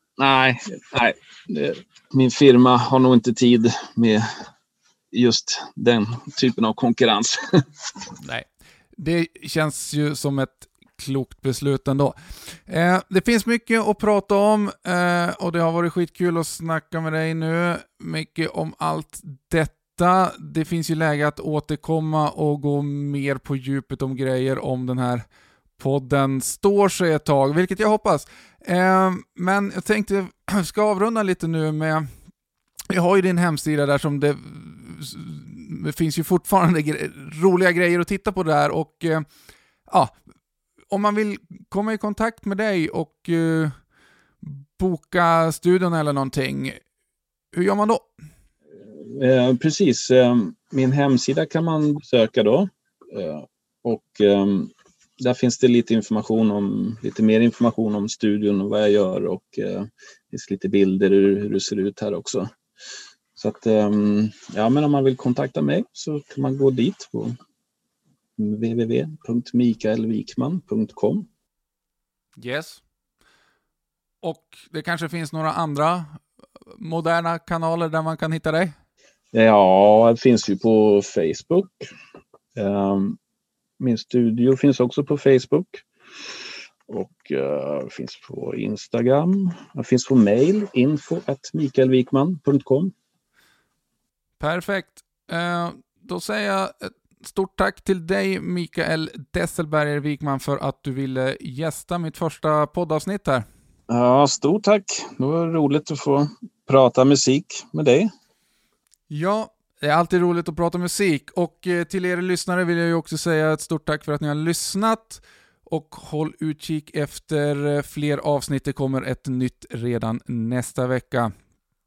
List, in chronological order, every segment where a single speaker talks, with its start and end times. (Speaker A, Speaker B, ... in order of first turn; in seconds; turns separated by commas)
Speaker A: 0.2-4.2, Speaker A: 5.1-7.4, Speaker B: 8.2-25.2, Speaker B: 25.8-32.1, Speaker B: 32.9-39.2, Speaker B: 39.9-40.1, Speaker B: 40.9-43.7, Speaker B: 44.4-46.8, Speaker B: 47.5-48.1, Speaker A: 48.8-62.5, Speaker A: 63.3-67.4, Speaker A: 68.4-71.3, Speaker B: 72.4-72.8, Speaker B: 74.2-76.2, Speaker B: 76.7-78.7, Speaker A: 79.3-81.9, Speaker A: 82.5-83.2, Speaker A: 83.8-85.8, Speaker A: 86.9-92.9, Speaker B: 94.4-103.4, Speaker A: 103.9-108.1, Speaker B: 109.1-121.3